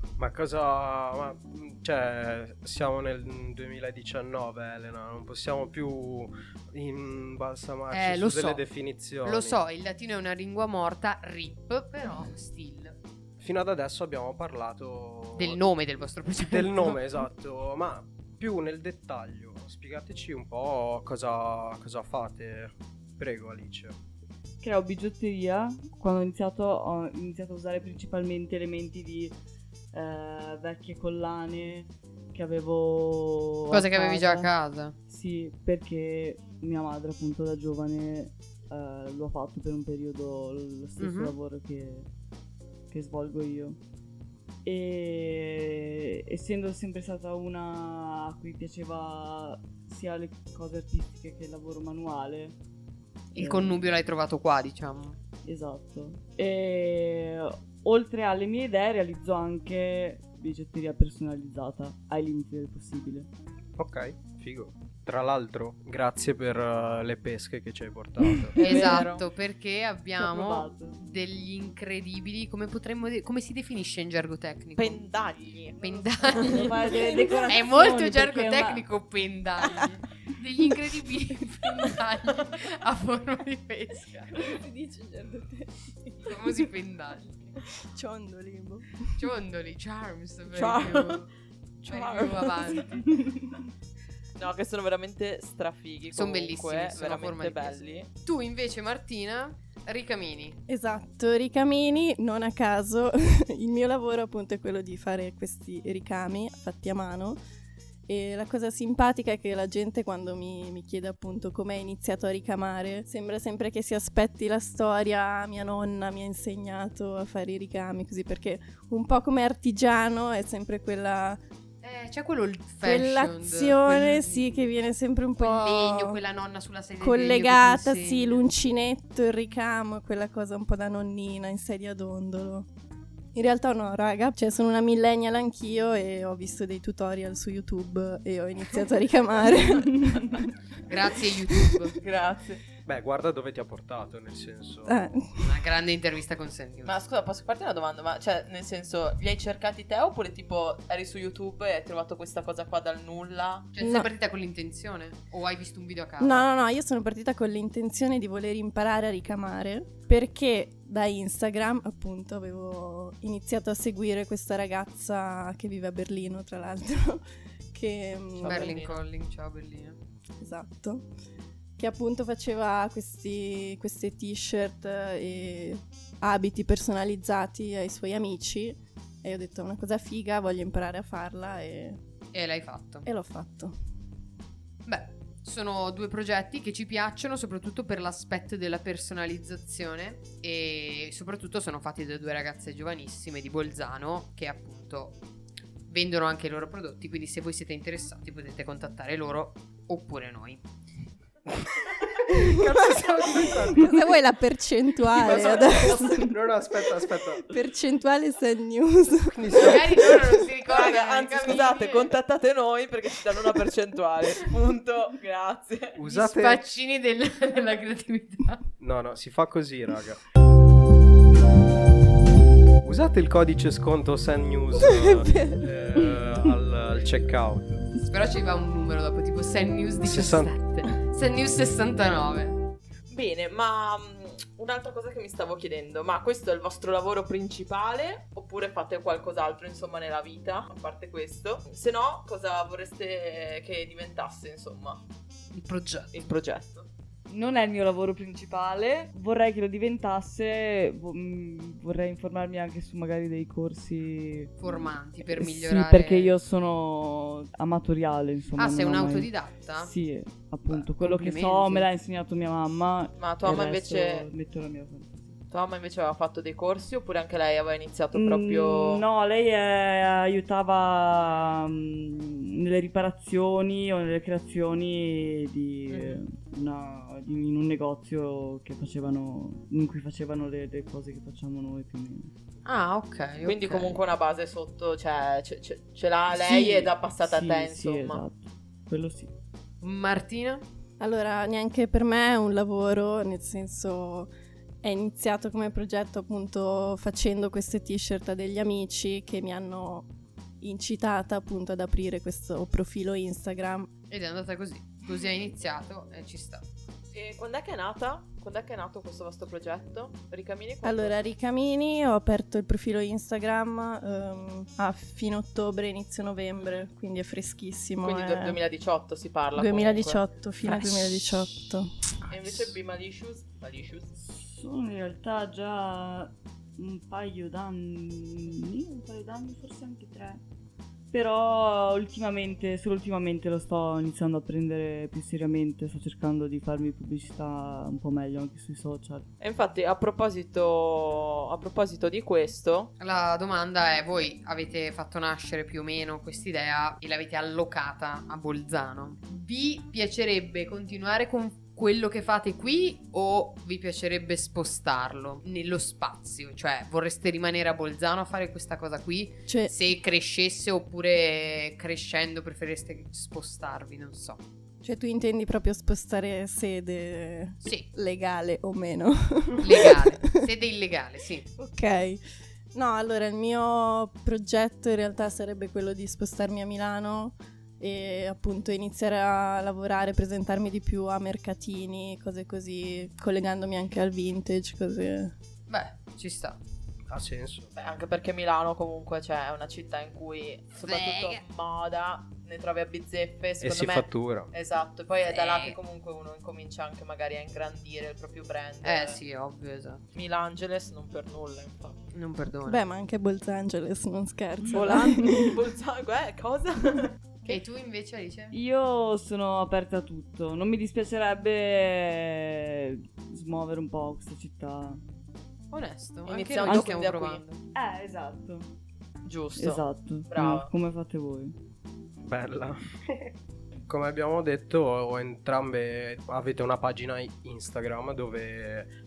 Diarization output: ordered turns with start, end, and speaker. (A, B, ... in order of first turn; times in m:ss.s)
0:00.2-0:09.6 A
0:07.9-0:08.6 B
0:09.2-0:13.0 B
0:13.4-0:15.6 A
0:15.4-0:17.0 B
0:16.5-0:24.0 A
0:24.6-0:29.4 C
0:29.9-0:34.5 C
0:33.7-0:35.0 B
0:35.1-0:42.1 C
0:41.0-0:41.4 B
0:42.9-0:43.8 C
0:44.6-0:52.6 C
0:53.4-0:55.2 B
0:53.4-0:53.9 C
0:55.4-1:03.3 C
1:03.8-1:08.5 A
1:08.5-1:15.0 B
1:08.6-1:09.1 C
1:08.6-1:09.2 D
1:10.2-1:11.0 C
1:14.8-1:16.9 D
1:15.8-1:16.8 B
1:16.5-1:18.9 C
1:17.0-1:17.5 E
1:17.5-1:24.5 B
1:24.3-1:26.5 E
1:26.2-1:27.4 B
1:27.7-1:29.2 E
1:29.2-1:31.3 B
1:30.5-1:31.2 D
1:31.8-1:32.8 D
1:31.9-1:33.2 B
1:34.4-1:38.1 D
1:36.1-1:40.6 B
1:40.7-1:47.4 E
1:48.1-2:01.4 E
2:01.8-2:04.4 B
2:02.8-2:06.2 E
2:05.4-2:08.4 B
2:07.0-2:12.7 E
2:13.3-2:20.5 E
2:20.9-2:22.0 B
2:21.5-2:21.9 E
2:22.0-2:22.6 D
2:22.9-2:25.0 A
2:24.9-2:25.6 E
2:25.4-2:26.9 B
2:26.8-2:33.7 D
2:33.7-2:36.5 B
2:33.8-2:34.1 E
2:36.2-2:48.8 E
2:48.4-2:49.0 D
2:48.5-2:50.0 B
2:50.4-2:51.1 E
2:51.8-3:02.0 E
3:02.3-3:03.1 B
3:03.1-3:03.8 E
3:04.9-3:15.2 B
3:15.9-3:20.6 B
3:22.3-3:24.0 A
3:23.7-3:26.3 E
3:25.1-3:27.5 A
3:27.5-3:30.4 E
3:29.3-3:29.8 A
3:29.6-3:32.1 B
3:30.7-3:36.0 D
3:36.0-3:36.6 A
3:36.0-3:38.6 B
3:38.8-3:40.2 A
3:42.8-3:47.8 A
3:44.8-3:45.6 E
3:48.0-3:52.6 B
3:50.0-3:50.5 A
3:53.1-4:05.0 D
4:05.5-4:06.1 B
4:06.1-4:06.9 D
4:07.3-4:25.4 C
4:14.6-4:16.4 B
4:18.6-4:19.9 B
4:20.7-4:21.9 B
4:23.2-4:24.3 D
4:25.5-4:29.0 D
4:28.2-4:42.3 C
4:35.9-4:36.2 B
4:42.6-4:44.0 B
4:43.4-4:48.2 D
4:46.4-4:49.3 C
4:49.8-4:50.6 B
4:51.0-4:54.3 E
4:54.8-5:00.1 E
5:00.6-5:03.9 E
5:04.1-5:06.6 B
5:07.1-5:11.2 D
5:10.8-5:18.6 E
5:18.0-5:20.2 D
5:19.6-5:21.9 E
5:22.3-5:24.2 D
5:24.2-5:30.4 C
5:31.1-5:39.3 C
5:39.4-5:42.9 D
5:43.0-6:04.4 B
5:59.5-5:59.7 E
6:04.8-6:10.4 E
6:09.6-6:11.5 B
6:11.6-6:12.2 E
6:12.7-6:25.4 E
6:25.7-6:26.6 B
6:27.1-6:27.7 A
6:27.8-6:39.2 D
6:30.8-6:31.4 B
6:33.6-6:34.5 A
6:35.3-6:35.8 B
6:38.8-6:40.0 B
6:40.1-6:42.0 D
6:42.1-6:42.8 B
6:42.6-6:45.6 E
6:44.7-6:47.2 D
6:45.0-6:45.4 C
6:47.5-6:48.5 B
6:48.5-6:55.0 C
6:55.7-6:57.6 B
6:56.3-6:57.4 D
6:57.8-6:58.7 C
6:59.2-7:00.7 D
6:59.6-7:01.6 C
7:02.2-7:03.2 A
7:03.9-7:08.9 A